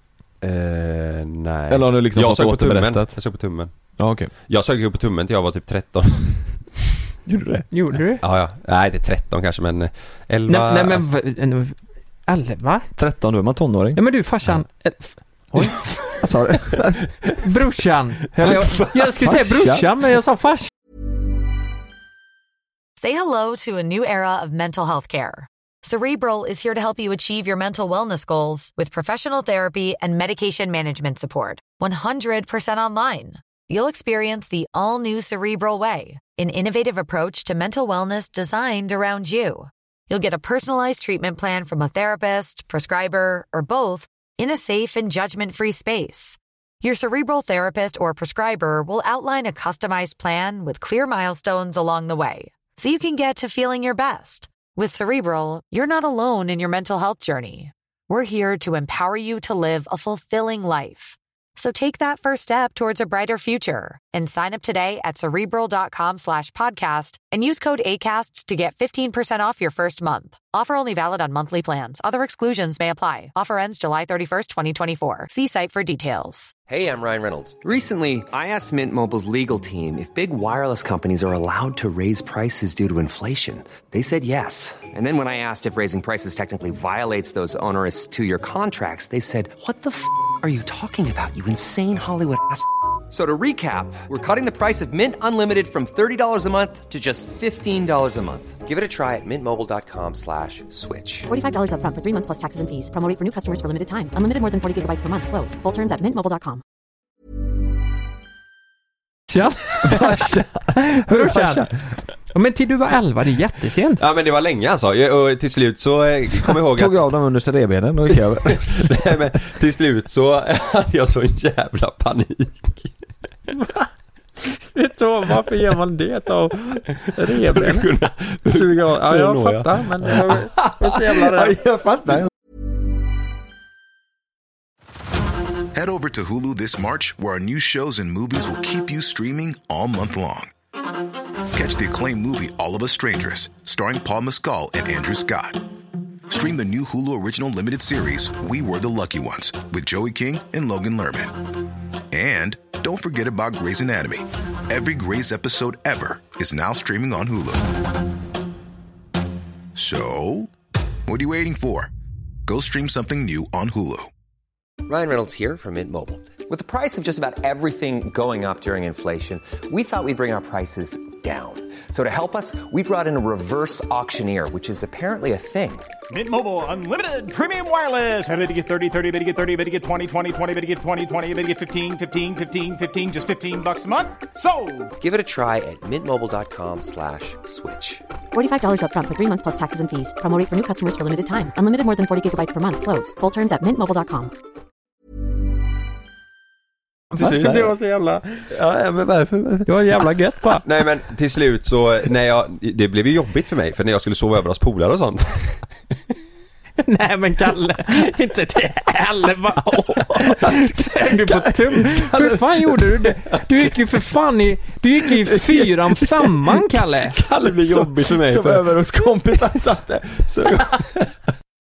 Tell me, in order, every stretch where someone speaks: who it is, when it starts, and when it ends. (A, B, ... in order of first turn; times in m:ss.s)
0:00.4-0:06.8 A
0:01.7-0:03.2 B
0:04.0-0:04.3 B
0:07.2-0:08.0 B
0:07.7-0:08.2 C
0:08.2-0:11.0 A
0:10.5-0:12.9 C
0:12.9-0:17.1 B
0:14.0-0:15.2 C
0:15.2-0:15.5 D
0:17.4-0:20.7 C
0:18.4-0:19.3 A
0:19.2-0:19.9 B
0:23.0-1:16.5 E
1:16.7-1:41.3 F
1:41.3-1:46.6 D
1:49.3-1:51.6 C
1:49.8-1:51.7 B
1:52.3-1:54.0 C
1:54.0-1:57.1 A
1:56.7-1:58.7 B
1:58.0-2:03.0 A
2:04.6-2:07.9 C
2:07.2-2:10.6 A
2:08.4-2:11.6 C
2:11.4-2:12.3 B
2:15.7-2:20.5 G
2:21.5-2:25.6 G
2:26.3-2:31.4 G
2:32.1-2:37.7 G
2:39.7-2:40.5 G
2:41.1-2:41.9 G
2:42.5-2:44.1 G
2:44.8-2:55.9 F
2:56.1-3:04.9 H
3:05.0-3:08.0 F
3:08.3-3:14.3 D
3:17.2-3:17.7 B
3:17.5-3:18.5 C
3:18.5-3:19.8 B
3:19.6-3:20.6 C
3:20.6-3:25.6 A
3:26.8-3:37.2 C
3:30.2-3:33.7 B
3:35.0-3:40.9 B
3:37.4-3:38.6 A